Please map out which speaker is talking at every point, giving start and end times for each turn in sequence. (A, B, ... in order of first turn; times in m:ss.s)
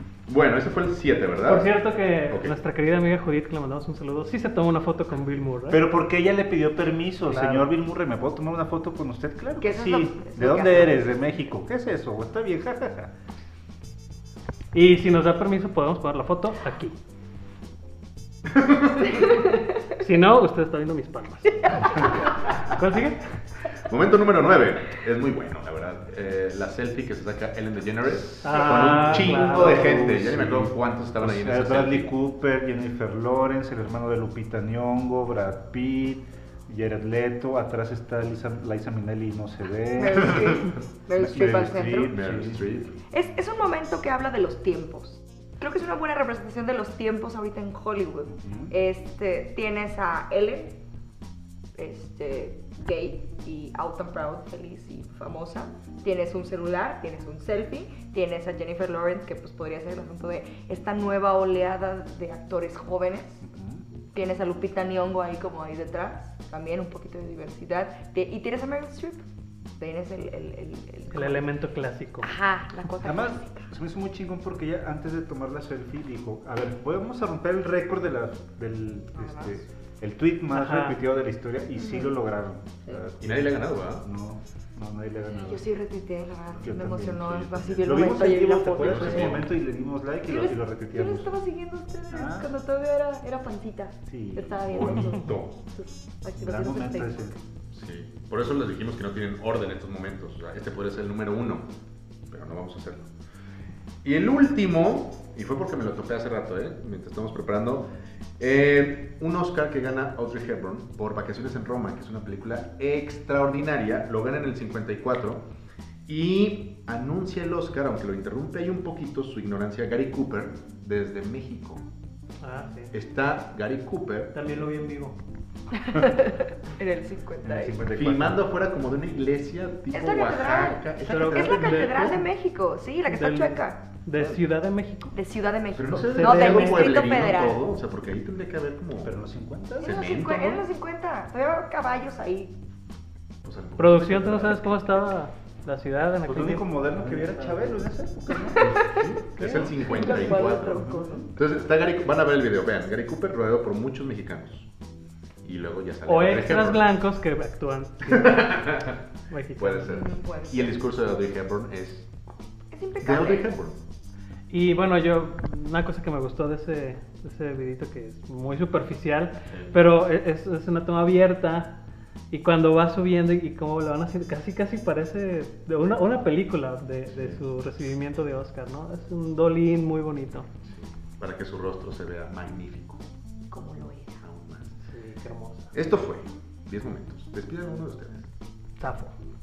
0:00.3-0:01.7 A
0:01.4-0:05.8 B
0:05.7-0:13.1 C
0:07.2-0:07.7 B
0:09.6-0:11.2 D
0:14.7-0:17.0 B
0:18.5-0:19.2 A
0:19.1-0:19.5 D
0:20.0-0:23.2 B
0:21.6-0:22.0 D
0:23.8-0:32.1 A
0:28.1-0:40.6 C
0:28.4-0:30.1 B
0:40.0-0:42.2 D
0:40.4-0:40.7 A
0:41.2-0:42.8 C
0:42.0-0:43.0 A
0:43.1-0:50.8 D
0:48.3-0:48.7 C
0:51.8-1:03.4 D
1:03.4-1:03.8 C
1:04.1-1:09.2 D
1:09.8-1:11.4 D
1:11.1-1:12.3 B
1:12.2-1:13.7 D
1:13.0-1:25.7 C
1:19.2-1:19.6 D
1:20.5-1:21.0 B
1:21.8-1:22.2 D
1:23.2-1:24.1 A
1:25.3-1:29.4 D
1:26.6-1:31.4 C
1:27.4-1:28.0 A
1:28.8-1:29.5 A
1:30.3-1:37.4 D
1:32.1-1:32.5 C
1:34.1-1:35.2 C
1:34.6-1:35.5 A
1:36.4-1:37.4 C
1:37.7-1:41.7 A
1:42.3-1:43.1 A
1:44.0-1:47.9 A
1:48.4-1:55.4 A
1:56.1-2:01.8 A
2:02.4-2:02.9 B
2:02.9-2:04.3 A
2:04.3-2:05.2 B
2:05.8-2:07.8 D
2:07.4-2:08.5 C
2:07.9-2:11.8 A
2:09.9-2:14.4 D
2:11.1-2:12.2 B
2:11.5-2:12.1 C
2:13.1-2:15.1 B
2:15.1-2:17.6 D
2:15.8-2:19.2 A
2:16.1-2:17.0 B
2:19.0-2:20.0 C
2:19.8-2:20.7 A
2:19.8-2:22.5 D
2:23.4-2:24.7 A
2:23.8-2:27.8 B
2:26.3-2:28.8 C
2:28.5-2:31.3 D
2:28.6-2:34.7 A
2:30.1-2:31.3 C
2:35.4-2:36.9 A
2:36.1-2:40.0 B
2:38.1-2:39.0 A
2:39.6-2:42.1 A
2:39.9-2:40.8 D
2:42.7-2:43.6 D
2:43.0-2:43.8 A
2:44.5-2:51.7 B
2:49.5-2:49.8 A
2:52.3-3:00.5 B
2:57.1-2:57.4 A
3:00.6-3:03.0 A
3:03.5-3:04.2 D
3:04.2-3:04.8 A
3:04.9-3:05.7 B
3:05.7-3:08.3 A
3:08.8-3:09.1 B